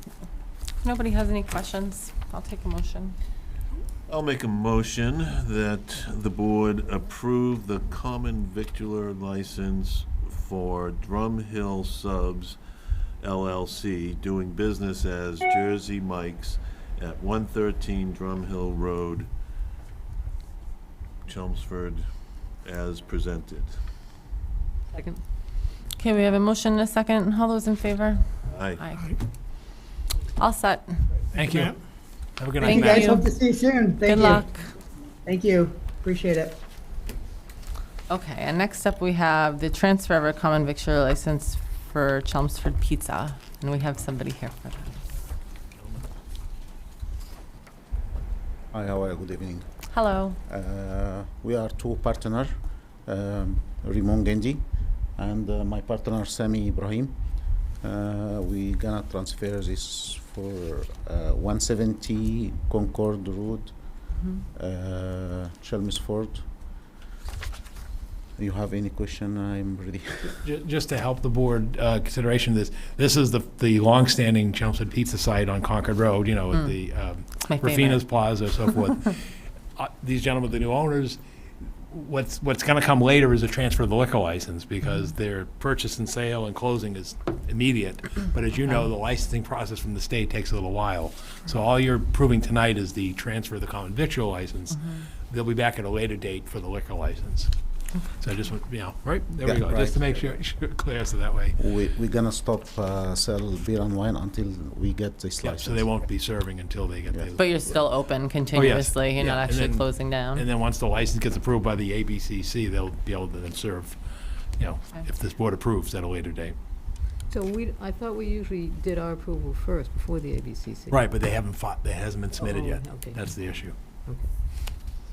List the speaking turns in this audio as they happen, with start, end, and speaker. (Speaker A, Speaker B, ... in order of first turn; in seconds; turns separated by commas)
Speaker A: 0.8-3.2, Speaker B: 4.1-12.6, Speaker B: 13.2-19.3, Speaker B: 21.2-22.0, Speaker B: 22.6-23.8, Speaker A: 26.0-28.2, Speaker B: 28.5-28.8, Speaker A: 28.8-29.1, Speaker A: 30.4-31.0, Speaker C: 31.3-31.8, Speaker C: 32.4-33.1, Speaker D: 32.6-34.5, Speaker A: 32.6-33.3, Speaker A: 34.0-34.7, Speaker D: 35.2-36.6, Speaker A: 38.1-45.0, Speaker E: 48.7-49.7, Speaker A: 49.9-50.4, Speaker E: 50.5-52.5, Speaker E: 53.1-54.6, Speaker E: 55.2-57.1, Speaker E: 57.8-63.8, Speaker E: 64.5-66.5, Speaker E: 68.4-70.4, Speaker C: 70.4-79.2, Speaker A: 77.4-78.0, Speaker C: 79.8-81.2, Speaker C: 81.9-97.5, Speaker C: 98.2-101.6, Speaker E: 99.4-100.0, Speaker E: 101.6-105.9, Speaker C: 105.4-107.6, Speaker A: 107.4-110.5, Speaker C: 108.5-114.0, Speaker C: 114.6-116.5, Speaker F: 117.3-121.0, Speaker C: 120.9-123.7, Speaker F: 122.4-123.2